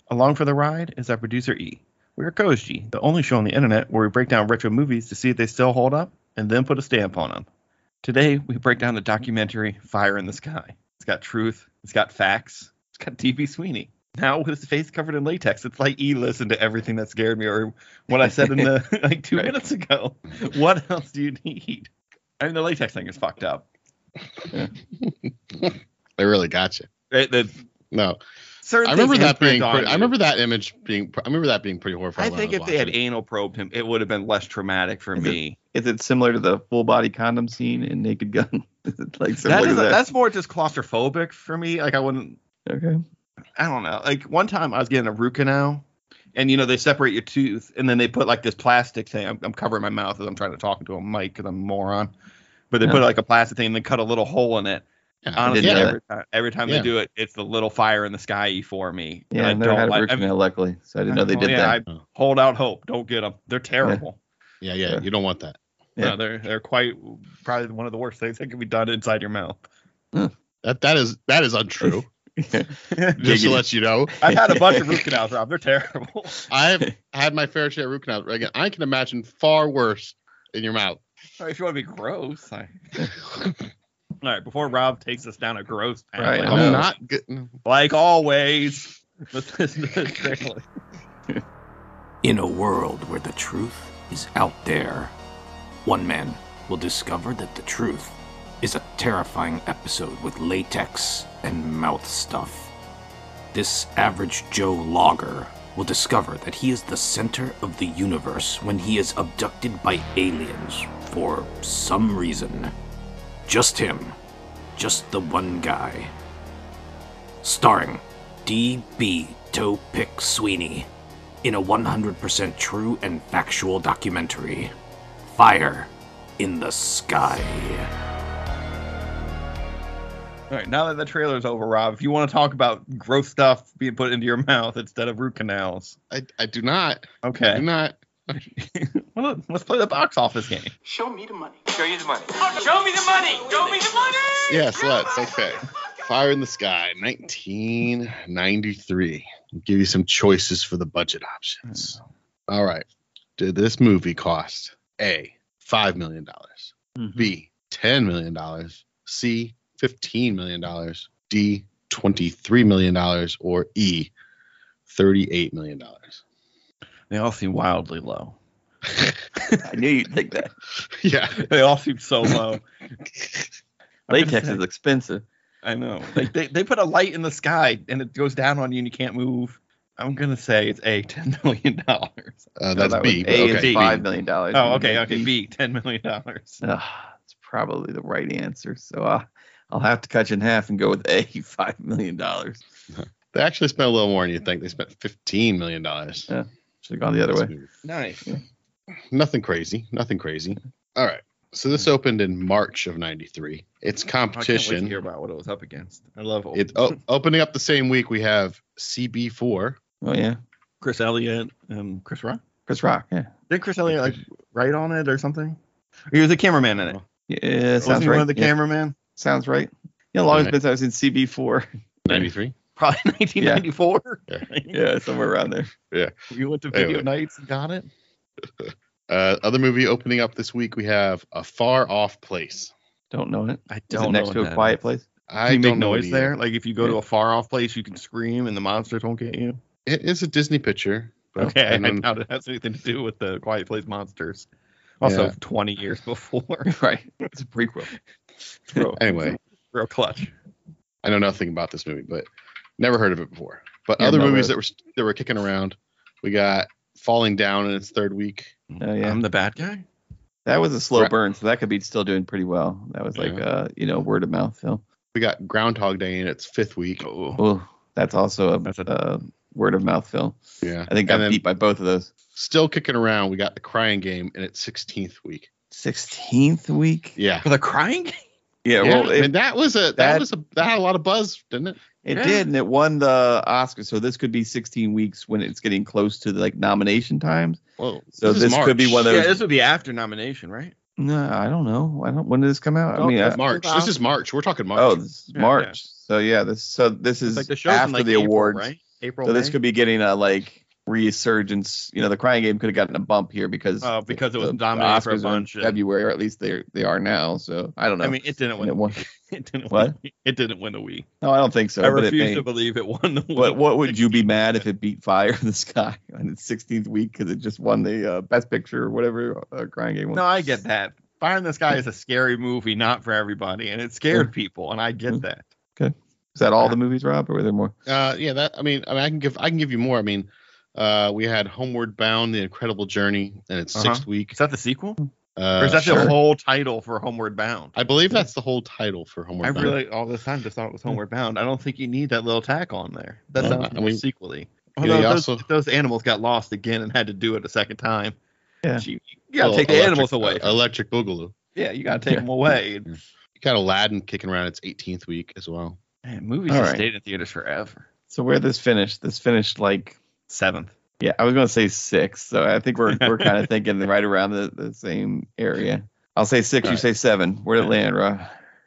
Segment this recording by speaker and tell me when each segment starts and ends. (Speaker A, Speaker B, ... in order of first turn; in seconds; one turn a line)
Speaker A: 0.1-7.5
Speaker A: 8.0-23.6
Speaker B: 18.3-18.6
Speaker C: 25.0-26.9
Speaker A: 27.1-27.6
Speaker C: 27.9-28.2
Speaker A: 28.6-30.1
Speaker C: 28.8-33.0
Speaker A: 32.2-35.6
Speaker B: 35.1-40.0
Speaker A: 39.4-42.4
Speaker B: 42.7-43.0
Speaker A: 43.6-45.8
Speaker A: 46.4-52.1
Speaker A: 52.7-54.9
Speaker C: 55.3-55.9
Speaker A: 55.4-60.3
Speaker B: 55.5-56.0
Speaker B: 59.3-61.8
Speaker A: 61.1-64.2
Speaker C: 64.6-65.6
Speaker A: 66.0-69.6
Speaker C: 70.6-72.1
Speaker B: 71.8-75.0
Speaker C: 73.2-74.1
Speaker A: 74.2-76.4
Speaker C: 76.5-81.0
Speaker A: 81.4-82.7
Speaker A: 84.2-86.9
Speaker B: 86.2-86.9
Speaker C: 86.5-87.6
Speaker A: 87.6-90.6
Speaker D: 92.2-95.1
Speaker D: 95.8-102.7
Speaker D: 103.5-112.7
Speaker D: 113.5-114.1
Speaker D: 114.8-116.1
Speaker D: 117.4-120.9
Speaker D: 121.4-124.7
Speaker D: 125.3-127.9
Speaker A: 130.5-135.9
Speaker C: 136.1-138.4
Speaker A: 137.2-137.7
Speaker A: 138.4-140.7
Speaker E: 140.9-141.8
Speaker F: 141.7-144.9
Speaker E: 142.4-144.1
Speaker C: 144.5-152.8
Speaker C: 153.4-164.1
Speaker C: 164.9-166.2
Speaker A: 167.1-168.3
Speaker B: 169.6-170.5
Speaker C: 170.9-171.4
Speaker A: 171.3-172.6
Speaker A: 174.1-174.6
Speaker B: 174.1-175.2
Speaker A: 175.6-186.6
Speaker C: 182.6-183.9
Speaker B: 182.8-185.3
Speaker B: 186.6-192.6
Speaker C: 192.9-196.3
Speaker B: 196.3-197.5
Speaker C: 197.3-197.7
Speaker A: 197.8-198.2
Speaker C: 199.1-205.0
Speaker A: 204.3-207.0
Speaker C: 206.5-209.8
Speaker B: 210.0-210.4
Speaker A: 210.8-212.4
Speaker B: 212.7-213.3
Speaker A: 213.5-215.6
Speaker C: 213.9-214.2
Speaker A: 216.1-217.0
Speaker B: 217.3-218.5
Speaker A: 217.8-218.9
Speaker B: 219.2-222.2
Speaker C: 222.1-222.6
Speaker A: 222.8-224.8
Speaker B: 223.4-223.6
Speaker B: 224.7-225.7
Speaker A: 226.3-227.9
Speaker C: 226.7-227.1
Speaker C: 228.6-232.7
Speaker B: 233.1-235.1
Speaker A: 233.7-234.8
Speaker C: 235.3-236.4
Speaker A: 235.4-239.6
Speaker C: 239.9-242.1
Speaker A: 241.4-244.5
Speaker A: 245.0-246.7
Speaker C: 245.0-245.3
Speaker B: 246.7-247.9
Speaker A: 248.7-250.3
Speaker C: 249.0-249.4
Speaker C: 251.0-252.2
Speaker C: 252.8-258.6
Speaker B: 254.0-254.5
Speaker A: 258.7-259.8
Speaker B: 258.8-259.2
Speaker B: 260.4-264.8
Speaker C: 263.1-263.4
Speaker C: 265.1-267.1
Speaker A: 267.0-267.4
Speaker B: 267.4-272.1
Speaker A: 268.6-268.9
Speaker C: 270.6-271.4
Speaker C: 272.3-275.5
Speaker B: 275.7-277.2
Speaker C: 277.2-277.5
Speaker A: 277.4-278.2
Speaker B: 278.6-279.3
Speaker C: 278.8-281.8
Speaker B: 280.0-280.2
Speaker B: 282.1-287.6
Speaker A: 282.1-282.4
Speaker C: 287.8-289.2
Speaker B: 288.2-289.4
Speaker A: 289.1-290.7
Speaker B: 291.0-293.4
Speaker A: 292.9-294.0
Speaker C: 293.3-295.0
Speaker B: 294.8-298.7
Speaker A: 295.3-295.8
Speaker A: 297.3-299.6
Speaker B: 299.2-309.0
Speaker A: 303.8-305.8
Speaker A: 308.0-311.1
Speaker B: 309.7-309.9
Speaker B: 311.2-312.4
Speaker A: 311.8-314.6
Speaker B: 313.4-320.2
Speaker A: 320.1-325.4
Speaker B: 325.8-327.7
Speaker C: 327.9-334.4
Speaker A: 333.8-335.0
Speaker C: 335.4-336.2
Speaker A: 335.6-337.8
Speaker B: 335.8-336.1
Speaker C: 337.8-339.8
Speaker A: 339.4-348.1
Speaker C: 343.4-344.0
Speaker C: 344.8-345.4
Speaker A: 348.8-350.6
Speaker C: 349.4-351.4
Speaker A: 351.6-352.9
Speaker C: 353.4-355.8
Speaker A: 356.1-357.9
Speaker B: 356.5-356.8
Speaker B: 358.1-360.0
Speaker A: 360.3-360.7
Speaker B: 361.0-368.3
Speaker A: 362.9-363.4